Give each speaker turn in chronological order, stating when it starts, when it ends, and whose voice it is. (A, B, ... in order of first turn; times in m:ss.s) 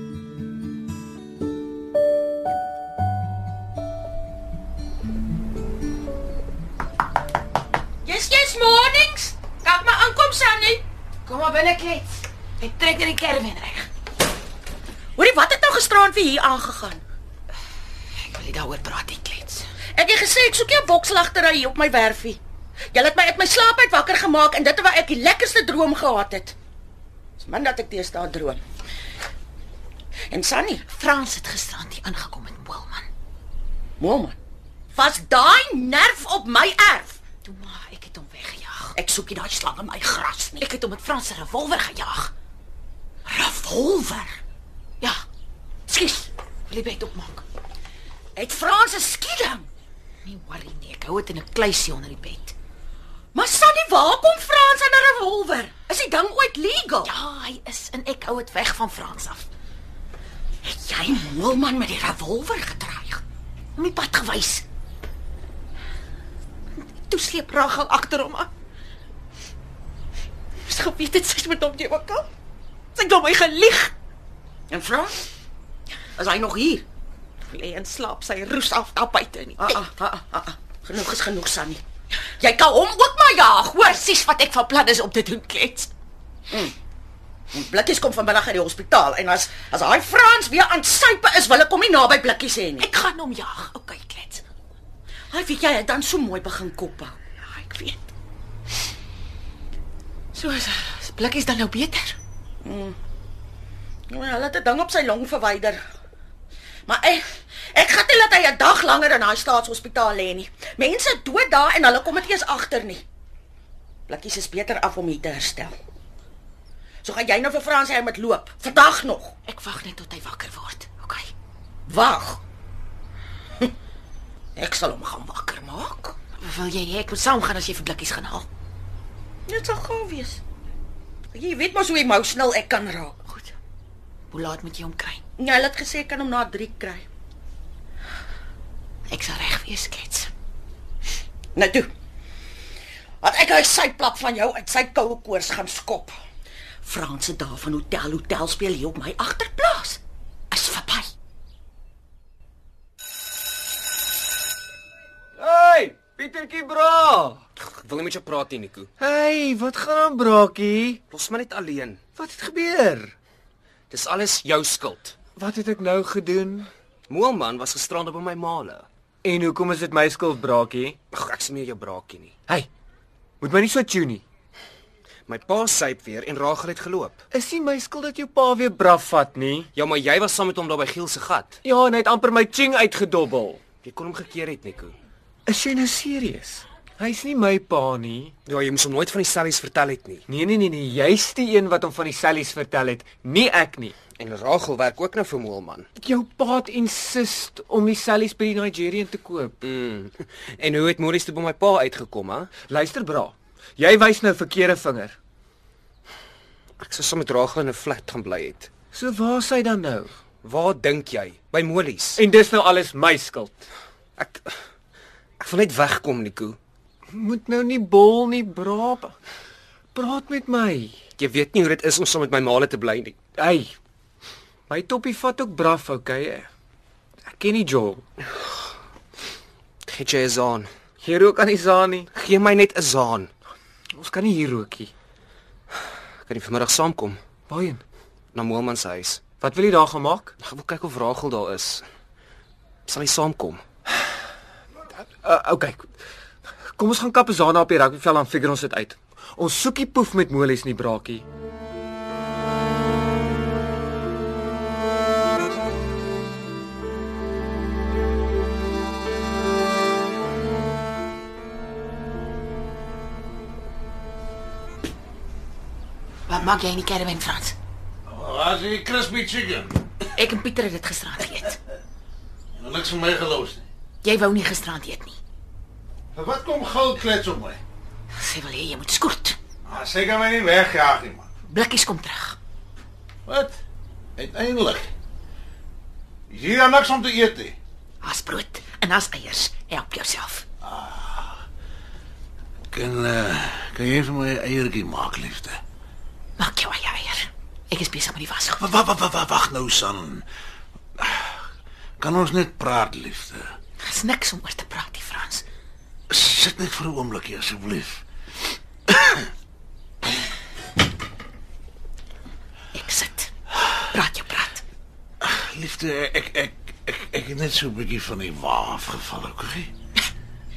0:08.0-0:10.8 A
0:11.3-0:13.9 B
0:15.2-0:17.0 A
0:18.2-0:19.7 B
0:20.0-0:22.4 A
0:22.9-0:26.6 A
0:27.4-0:28.6 A
0:30.3-0:30.8 A
0:30.8-0:33.1 B
0:34.0-0:34.4 A
0:34.9-0:37.2 A
0:37.4-0:38.9 B
0:39.0-0:40.7 A
0:40.6-0:42.3 B
0:43.3-0:44.4 B
0:45.9-0:47.4 B
0:48.4-0:49.7 A
0:50.2-0:52.5 B
0:53.3-0:57.1 A
0:57.0-0:59.5 B
1:00.6-1:03.2 A
1:03.8-1:04.6 B
1:06.8-1:08.5 B
1:10.7-1:12.3 B
1:13.0-1:13.9 B
1:14.7-1:15.2 A
1:16.2-1:16.8 A
1:17.5-1:19.8 B
1:19.6-1:21.8 A
1:22.4-1:23.8 A
1:23.5-1:25.9 B
1:26.5-1:26.8 A
1:27.5-1:32.9 A
1:32.8-1:34.4 B
1:35.3-1:37.2 A
1:37.5-1:38.1 B
1:40.3-1:42.2 B
1:42.6-1:43.0 A
1:44.1-1:45.8 A
1:46.9-1:53.0 A
1:54.1-1:55.8 A
1:57.0-1:59.4 A
1:59.5-2:01.3 B
2:01.9-2:02.4 A
2:04.6-2:06.2 A
2:06.4-2:08.5 B
2:09.5-2:10.4 A
2:11.3-2:13.2 A
2:14.3-2:15.2 B
2:15.4-2:17.1 A
2:19.1-2:20.3 B
2:21.6-2:21.9 A
2:23.2-2:26.1 A
2:26.8-2:30.0 A
2:30.5-2:31.1 A
2:35.4-2:37.4 C
2:37.6-2:38.9 D
2:39.0-2:41.0 C
2:41.1-2:42.0 D
2:42.2-2:43.2 C
2:43.9-2:45.2 D
2:45.4-2:46.7 C
2:47.1-2:48.9 D
2:49.2-2:51.0 C
2:51.1-2:52.4 D
2:53.4-2:54.2 C
2:55.3-2:57.2 D
2:57.3-2:59.7 C
2:59.8-3:01.6 D
3:01.6-3:03.6 C
3:03.8-3:05.0 D
3:05.5-3:08.4 C
3:08.5-3:10.2 D
3:10.3-3:14.0 C
3:14.2-3:15.9 D
3:16.0-3:19.6 C
3:19.6-3:22.5 D
3:22.7-3:25.2 C
3:26.8-3:28.7 D
3:28.9-3:30.1 C
3:30.4-3:32.2 D
3:32.2-3:33.7 C
3:34.2-3:34.6 D
3:35.4-3:36.6 D
3:37.1-3:39.1 C
3:39.9-3:41.0 C
3:41.2-3:43.2 D
3:43.4-3:43.8 C
3:44.7-3:46.5 C
3:47.2-3:48.1 C
3:49.9-3:50.7 D
3:51.0-3:52.1 C
3:52.2-3:53.3 D
3:53.9-3:54.9 C
3:56.3-3:57.2 D
3:57.5-3:57.8 C
3:58.3-3:59.2 D
3:59.4-4:00.4 C
4:00.4-4:01.8 D
4:02.9-4:03.6 D
4:05.2-4:05.9 C
4:06.7-4:11.3 C
4:26.3-4:27.6 B
4:28.1-4:29.9 E
4:30.2-4:31.6 B
4:32.6-4:33.7 E
4:34.0-4:35.2 B
4:36.2-4:37.6 E
4:38.2-4:39.4 B
4:39.7-4:41.3 E
4:41.5-4:42.4 B
4:43.3-4:43.6 E
4:44.2-4:44.9 E
4:46.3-4:47.6 E
4:48.0-4:50.4 B
4:50.6-4:51.4 E
4:52.7-4:55.6 E
4:56.4-4:58.6 B
4:58.6-5:00.3 E
5:01.0-5:01.4 E
5:02.0-5:03.5 E
5:03.8-5:05.4 B
5:06.1-5:08.0 E
5:08.9-5:09.2 E
5:12.7-5:13.3 B
5:13.9-5:14.6 B
5:15.2-5:19.7 E